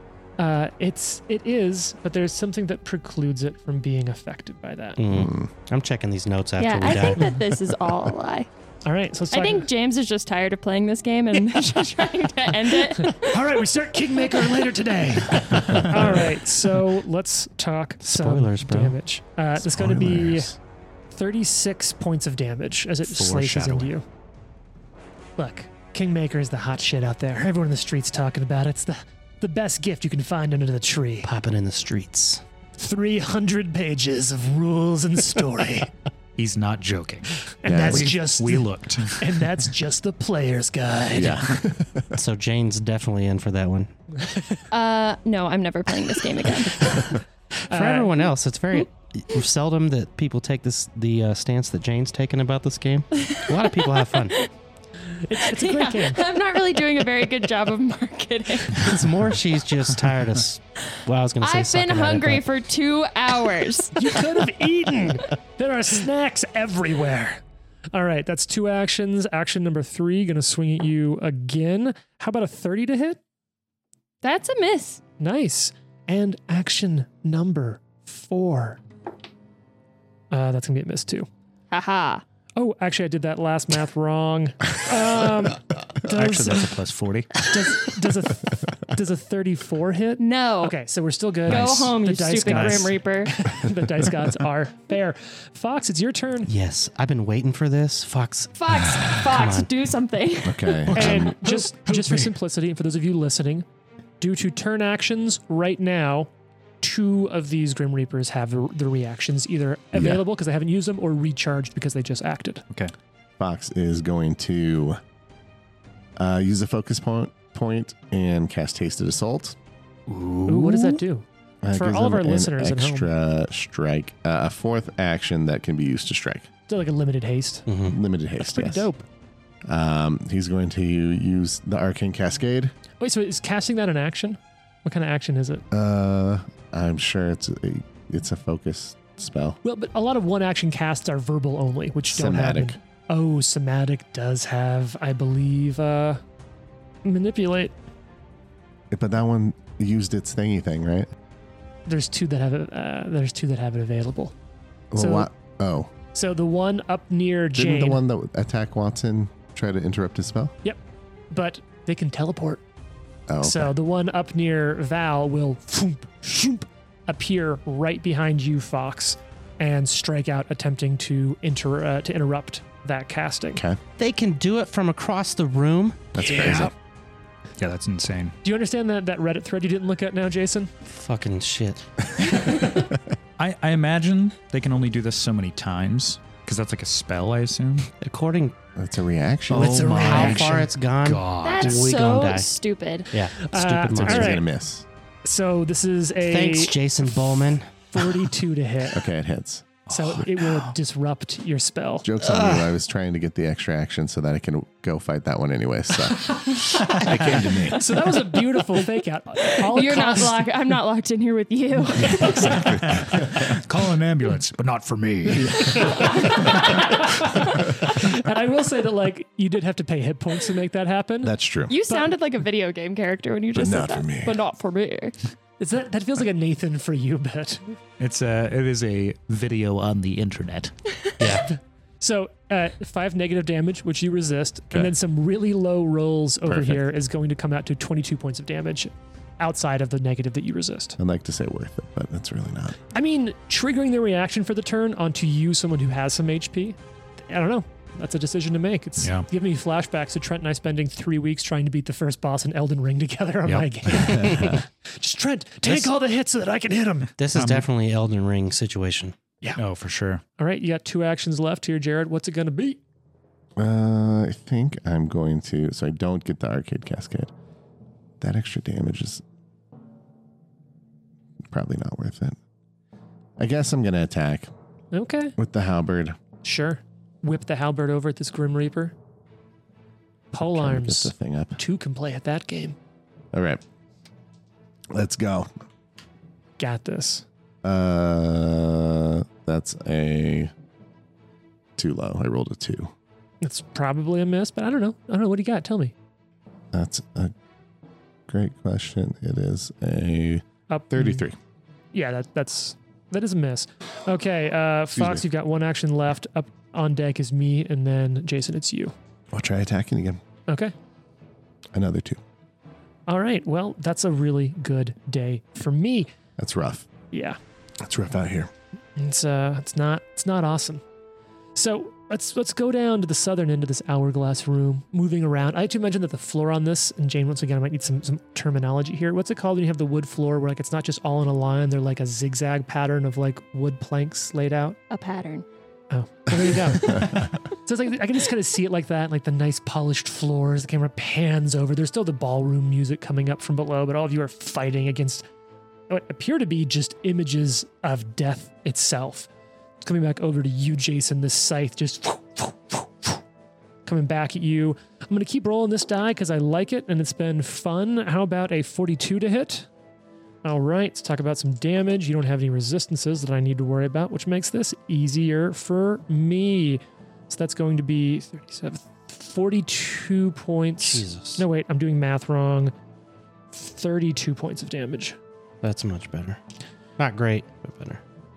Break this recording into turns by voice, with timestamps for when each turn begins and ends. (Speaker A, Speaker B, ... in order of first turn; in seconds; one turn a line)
Speaker A: 0.4-5.0
Speaker B: 5.0-7.3
Speaker C: 5.1-5.5
Speaker D: 6.6-8.5
Speaker A: 8.8-9.7
Speaker D: 9.3-13.5
Speaker A: 12.9-20.6
Speaker B: 18.0-19.0
Speaker C: 19.6-20.5
Speaker A: 21.1-24.1
Speaker E: 23.1-23.9
Speaker A: 25.4-31.3
Speaker B: 31.2-32.4
Speaker A: 32.8-35.9
Speaker E: 36.4-39.5
Speaker A: 37.6-41.4
Speaker C: 37.6-38.2
Speaker C: 41.1-42.2
Speaker E: 41.2-41.4
Speaker B: 42.1-43.9
Speaker A: 44.2-44.6
Speaker D: 44.7-47.0
Speaker A: 46.8-48.3
Speaker B: 47.7-54.4
Speaker D: 53.2-54.5
Speaker A: 55.1-56.2
Speaker D: 55.4-58.9
Speaker B: 58.7-62.4
Speaker D: 61.4-64.2
Speaker A: 64.0-73.2
Speaker D: 74.2-75.0
Speaker A: 75.2-78.8
Speaker A: 80.3-81.3
Speaker D: 81.7-82.2
Speaker A: 82.6-86.8
Speaker E: 86.0-87.5
Speaker A: 87.4-96.5
Speaker D: 90.2-90.8
Speaker D: 91.5-93.3
Speaker E: 91.5-91.9
Speaker E: 92.5-92.9
Speaker B: 96.5-99.7
Speaker D: 98.5-100.9
Speaker C: 100.5-101.4
Speaker A: 100.9-103.7
Speaker E: 101.0-102.2
Speaker A: 104.2-112.6
Speaker C: 109.9-110.2
Speaker C: 113.4-115.0
Speaker C: 116.2-119.6
Speaker E: 120.1-121.0
Speaker A: 120.5-123.1
Speaker C: 121.6-126.5
Speaker A: 126.7-127.7
Speaker B: 127.7-128.0
Speaker C: 127.9-128.9
Speaker A: 128.4-129.1
Speaker C: 129.7-132.8
Speaker A: 133.0-135.7
Speaker C: 135.7-139.6
Speaker A: 139.6-146.2
Speaker C: 142.1-142.8
Speaker A: 147.0-147.7
Speaker C: 148.9-151.1
Speaker A: 151.9-154.3
Speaker C: 154.9-155.9
Speaker A: 154.9-155.3
Speaker A: 156.1-158.0
Speaker C: 157.5-160.5
Speaker A: 161.3-162.6
Speaker C: 163.3-163.7
Speaker A: 163.4-173.6
Speaker B: 174.0-176.1
Speaker C: 176.1-176.7
Speaker E: 176.2-176.7
Speaker A: 176.4-176.7
Speaker E: 177.6-178.3
Speaker A: 178.4-180.7
Speaker B: 180.8-181.8
Speaker E: 183.4-187.9
Speaker B: 188.0-188.6
Speaker C: 188.8-190.1
Speaker E: 189.5-191.8
Speaker A: 189.5-190.7
Speaker B: 189.6-192.5
Speaker D: 191.4-193.1
Speaker B: 193.1-194.4
Speaker A: 193.4-194.4
Speaker C: 194.0-194.9
Speaker A: 195.2-197.2
Speaker B: 196.2-197.8
Speaker A: 197.9-199.0
Speaker C: 198.9-199.8
Speaker E: 199.9-200.7
Speaker A: 199.9-202.7
Speaker C: 202.0-206.5
Speaker E: 206.8-208.2
Speaker A: 207.0-210.5
Speaker C: 207.1-207.7
Speaker D: 209.6-212.7
Speaker A: 212.1-212.8
Speaker E: 212.4-216.8
Speaker A: 215.7-221.3
Speaker C: 221.2-221.7
Speaker D: 221.7-225.2
Speaker C: 223.6-224.4
Speaker A: 225.6-227.8
Speaker E: 228.0-230.7
Speaker B: 231.2-231.5
Speaker A: 231.4-241.0
Speaker C: 236.4-236.8
Speaker C: 241.0-242.8
Speaker A: 242.9-257.1
Speaker E: 249.0-249.3
Speaker E: 253.5-254.3
Speaker B: 255.6-255.9
Speaker B: 257.2-259.2
Speaker E: 257.3-257.7
Speaker E: 259.6-260.2
Speaker A: 260.4-262.8
Speaker C: 263.6-267.3
Speaker C: 268.2-269.2
Speaker C: 271.5-272.4
Speaker C: 273.4-274.5
Speaker A: 274.9-275.4
Speaker C: 275.4-276.2
Speaker A: 276.4-278.9
Speaker A: 280.3-282.8
Speaker C: 280.4-281.6
Speaker C: 283.3-283.6
Speaker C: 284.9-285.5
Speaker A: 286.6-287.2
Speaker C: 287.6-290.5
Speaker C: 291.8-292.9
Speaker A: 293.4-295.9
Speaker C: 296.7-297.3
Speaker C: 298.3-301.4
Speaker A: 300.7-301.3
Speaker A: 301.9-308.9
Speaker C: 304.9-305.2
Speaker C: 309.3-310.2
Speaker A: 310.5-310.7
Speaker C: 311.8-312.2
Speaker A: 313.1-316.1
Speaker C: 316.4-316.9
Speaker A: 317.1-317.4
Speaker C: 317.8-318.5
Speaker A: 319.0-320.8
Speaker A: 321.6-334.8
Speaker D: 334.9-335.4
Speaker A: 335.9-345.2
Speaker A: 345.9-349.3
Speaker A: 349.8-353.2
Speaker A: 353.9-359.7
Speaker A: 360.4-372.7
Speaker B: 370.8-371.4
Speaker A: 373.5-375.2
Speaker B: 375.6-376.4
Speaker B: 377.0-378.0